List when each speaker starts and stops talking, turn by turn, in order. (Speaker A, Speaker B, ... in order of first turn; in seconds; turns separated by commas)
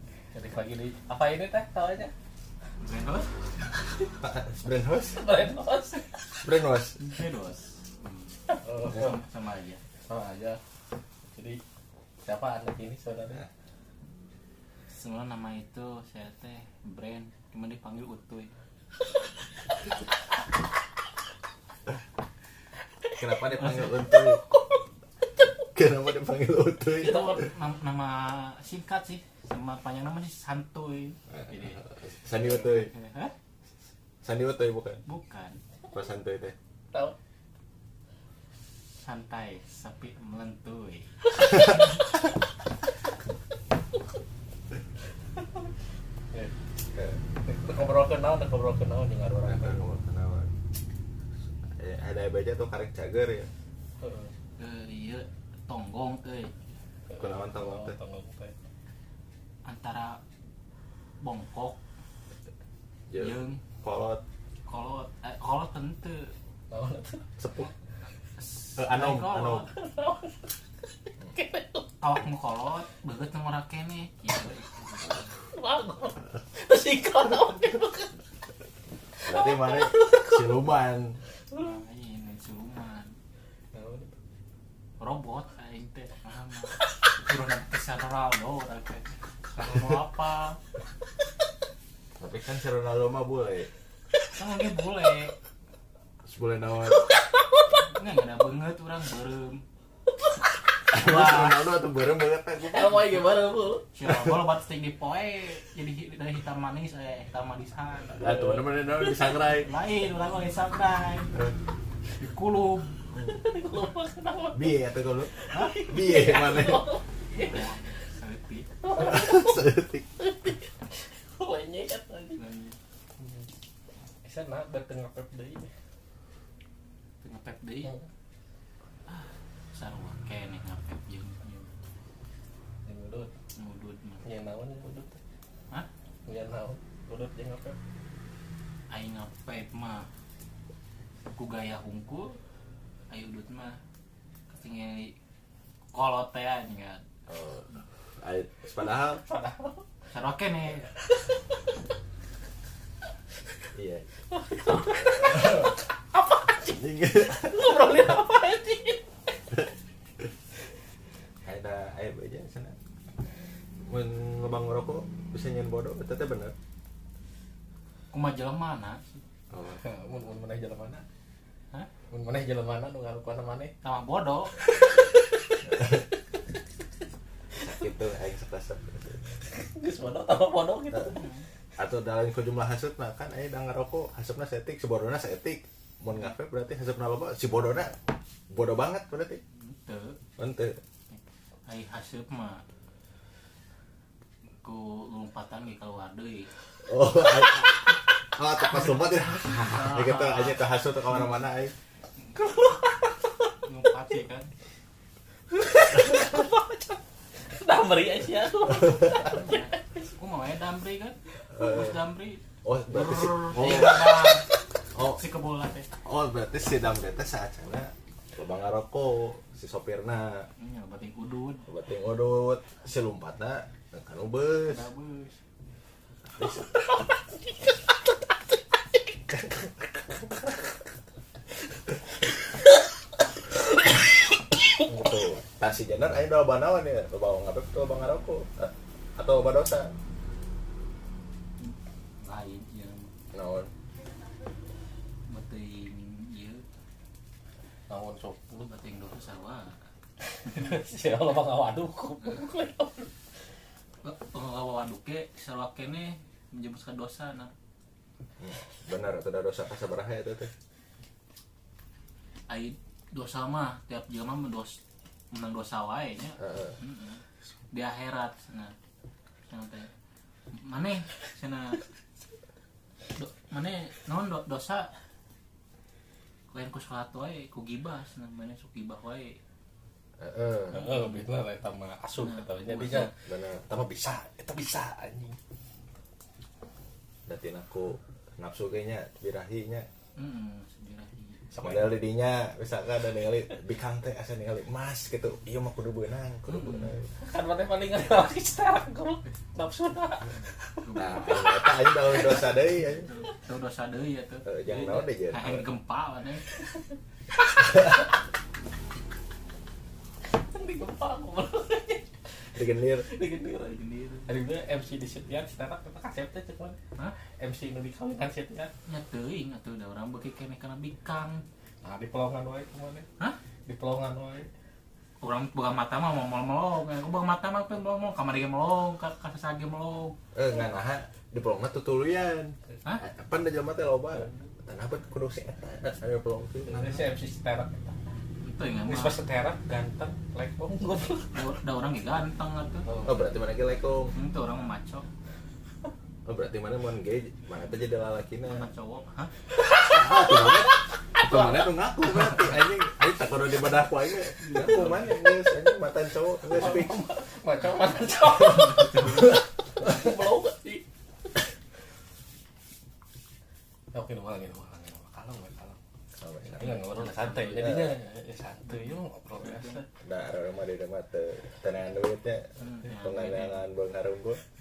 Speaker A: 0.3-2.1, Speaker B: 2.8-3.3, Speaker C: 4.2-5.3, Speaker A: 5.1-6.5, Speaker C: 6.4-7.0, Speaker B: 7.0-9.8, Speaker A: 8.5-9.2, Speaker A: 10.1-10.6, Speaker A: 11.3-11.6, Speaker A: 12.2-13.4, Speaker B: 14.9-18.5, Speaker C: 23.1-24.4, Speaker B: 23.6-23.9, Speaker A: 23.7-24.6, Speaker C: 25.7-27.4, Speaker A: 27.0-27.5, Speaker B: 27.0-31.8, Speaker C: 31.3-32.9, Speaker B: 32.4-33.3, Speaker C: 34.2-35.0, Speaker B: 35.0-35.6, Speaker C: 35.9-36.5, Speaker B: 39.0-41.7, Speaker C: 46.9-47.2, Speaker A: 47.4-49.8, Speaker C: 49.4-50.5, Speaker C: 51.7-53.5, Speaker A: 54.0-54.3, Speaker B: 54.6-56.5, Speaker A: 57.1-58.5, Speaker C: 57.2-58.0, Speaker B: 59.6-60.2, Speaker B: 61.2-61.8, Speaker C: 63.1-64.2, Speaker B: 63.1-63.6, Speaker B: 64.7-66.3, Speaker A: 66.7-67.2, Speaker C: 67.4-67.7, Speaker B: 68.4-69.7, Speaker C: 68.8-69.7, Speaker A: 69.7-70.5, Speaker A: 71.2-72.0, Speaker B: 72.0-75.3, Speaker A: 75.5-78.2, Speaker A: 79.2-80.5, Speaker C: 79.2-81.2, Speaker B: 81.5-83.1, Speaker A: 83.7-84.1, Speaker B: 85.0-90.6, Speaker C: 92.2-93.7, Speaker B: 94.3-95.3, Speaker C: 96.2-97.1, Speaker A: 97.0-97.8, Speaker B: 97.8-99.6, Speaker A: 100.2-100.8, Speaker C: 100.9-103.2, Speaker B: 100.9-101.6, Speaker A: 102.6-103.9, Speaker B: 103.9-108.3, Speaker C: 108.2-109.7, Speaker A: 108.2-109.3, Speaker B: 109.5-111.3, Speaker B: 112.2-113.0, Speaker A: 113.2-117.7, Speaker C: 114.5-116.9, Speaker B: 115.5-115.9, Speaker B: 117.3-118.7, Speaker A: 118.8-122.4, Speaker C: 119.0-120.0, Speaker B: 122.3-122.8, Speaker A: 123.2-123.5, Speaker A: 124.2-125.7, Speaker B: 127.2-127.9, Speaker B: 129.1-131.7, Speaker A: 132.8-133.3, Speaker B: 133.6-134.2, Speaker A: 134.2-135.2, Speaker A: 136.2-137.8, Speaker B: 138.9-140.1, Speaker B: 141.3-142.4, Speaker B: 143.1-143.8, Speaker B: 144.5-145.1, Speaker B: 145.9-147.0, Speaker C: 147.3-149.2, Speaker A: 149.1-149.8, Speaker B: 150.1-150.9, Speaker C: 153.7-154.1, Speaker A: 154.3-159.1, Speaker C: 155.3-155.7, Speaker C: 156.7-157.8, Speaker C: 161.4-162.8, Speaker C: 163.9-166.5, Speaker B: 168.1-169.2, Speaker C: 169.5-169.8, Speaker A: 169.6-171.0, Speaker A: 172.1-173.7, Speaker B: 173.8-174.7, Speaker A: 174.6-176.4, Speaker C: 175.7-176.0, Speaker C: 177.6-179.2, Speaker A: 179.5-181.2, Speaker C: 180.9-181.2, Speaker B: 181.1-181.4, Speaker C: 181.8-188.0, Speaker C: 188.5-189.4, Speaker B: 189.6-190.2, Speaker C: 190.4-190.8, Speaker B: 191.1-192.6, Speaker B: 194.6-196.5, Speaker C: 196.8-201.7, Speaker B: 198.9-200.6, Speaker A: 202.3-203.3, Speaker B: 203.6-204.5, Speaker A: 205.5-209.8, Speaker C: 208.9-209.2, Speaker B: 209.1-214.5, Speaker C: 211.5-212.0, Speaker C: 212.6-214.4, Speaker C: 214.9-215.2, Speaker B: 215.0-215.9, Speaker C: 216.0-220.5, Speaker B: 220.6-221.7, Speaker C: 221.7-224.8, Speaker B: 224.6-225.4, Speaker C: 226.4-226.6, Speaker C: 234.8-239.9, Speaker B: 241.6-243.1, Speaker C: 243.3-243.7, Speaker B: 245.3-246.6, Speaker A: 247.9-248.7, Speaker B: 248.6-249.8, Speaker A: 250.4-253.1, Speaker B: 250.5-250.8, Speaker B: 254.0-257.5, Speaker C: 258.4-260.5, Speaker B: 262.5-264.8, Speaker B: 265.3-268.7, Speaker C: 266.4-266.8, Speaker B: 269.5-269.9, Speaker B: 270.5-271.8, Speaker B: 273.2-274.9, Speaker B: 276.5-279.4, Speaker C: 280.2-280.8, Speaker A: 280.7-285.4, Speaker B: 280.8-281.2, Speaker B: 282.2-283.1, Speaker C: 283.1-283.7, Speaker C: 287.3-289.9, Speaker B: 290.1-291.4, Speaker A: 291.5-291.9, Speaker C: 291.6-297.1, Speaker B: 296.5-296.9, Speaker A: 297.2-302.5, Speaker B: 300.5-301.4, Speaker C: 301.0-303.1, Speaker B: 302.8-306.6, Speaker C: 304.4-305.7, Speaker A: 304.7-305.0, Speaker A: 307.6-307.8, Speaker A: 310.3-312.1, Speaker C: 312.5-313.1, Speaker A: 313.0-318.7, Speaker B: 313.7-314.3, Speaker B: 318.9-321.4, Speaker A: 321.8-323.1, Speaker A: 323.6-324.5, Speaker B: 325.2-330.1, Speaker C: 330.3-336.8, Speaker A: 336.7-338.0, Speaker B: 338.4-339.2, Speaker A: 338.9-341.6, Speaker B: 341.3-342.9, Speaker A: 342.9-343.3, Speaker C: 343.0-344.1, Speaker B: 344.1-345.1, Speaker C: 346.2-348.7, Speaker B: 348.4-349.3, Speaker A: 349.6-351.6, Speaker C: 349.8-357.0, Speaker B: 354.4-355.2, Speaker A: 356.4-360.8, Speaker A: 363.9-365.8, Speaker C: 366.2-366.8, Speaker A: 366.4-369.9, Speaker B: 366.6-367.7, Speaker C: 367.6-367.9, Speaker B: 368.7-369.8, Speaker C: 370.0-374.4, Speaker B: 372.6-373.6